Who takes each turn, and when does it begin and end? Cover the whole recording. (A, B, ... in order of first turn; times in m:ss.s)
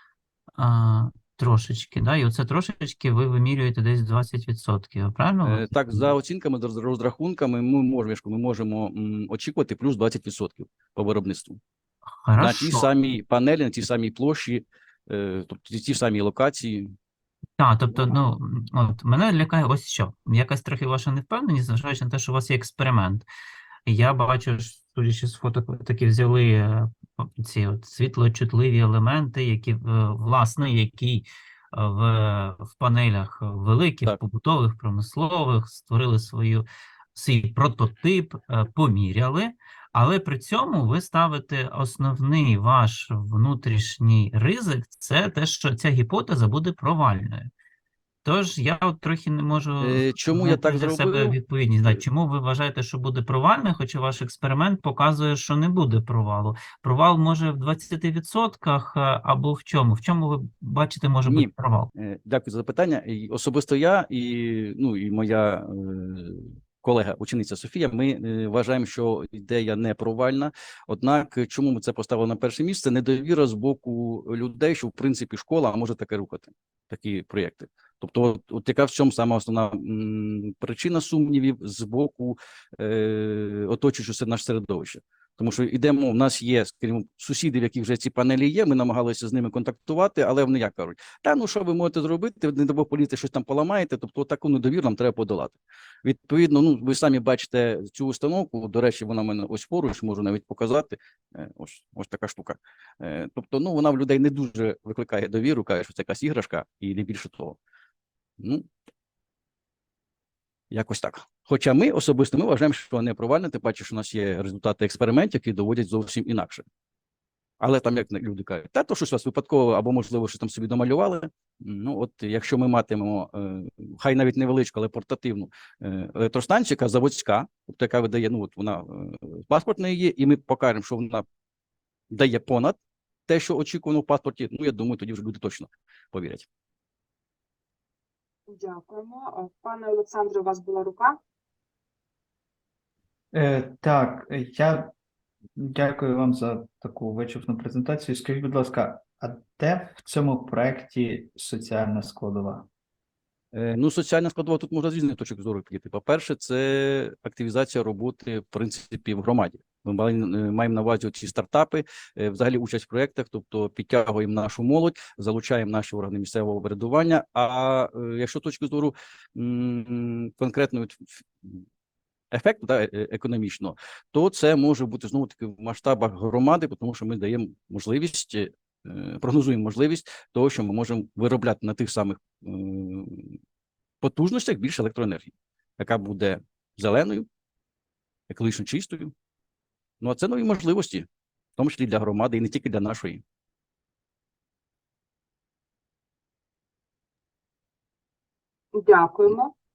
0:00.6-0:06.1 A
0:05.4-0:11.6 B
0:12.2-0:12.9 A
0:12.4-0:16.9 B
0:17.6-0:23.3 A
0:23.9-0:47.5 A
0:48.2-1:01.9 A
0:49.8-0:51.4 B
1:01.3-1:47.6 B
1:48.4-1:48.7 B
1:50.7-1:56.6 B
1:57.6-2:11.2 B
2:12.1-2:16.5 B
2:18.5-2:21.2 C
2:23.3-2:24.9 D
2:25.6-2:32.7 D
2:33.5-2:51.6 B
2:52.3-3:03.4 B
3:04.0-3:07.3 B
3:08.3-3:09.1 B
3:10.0-3:13.2 B
3:18.8-3:19.5 C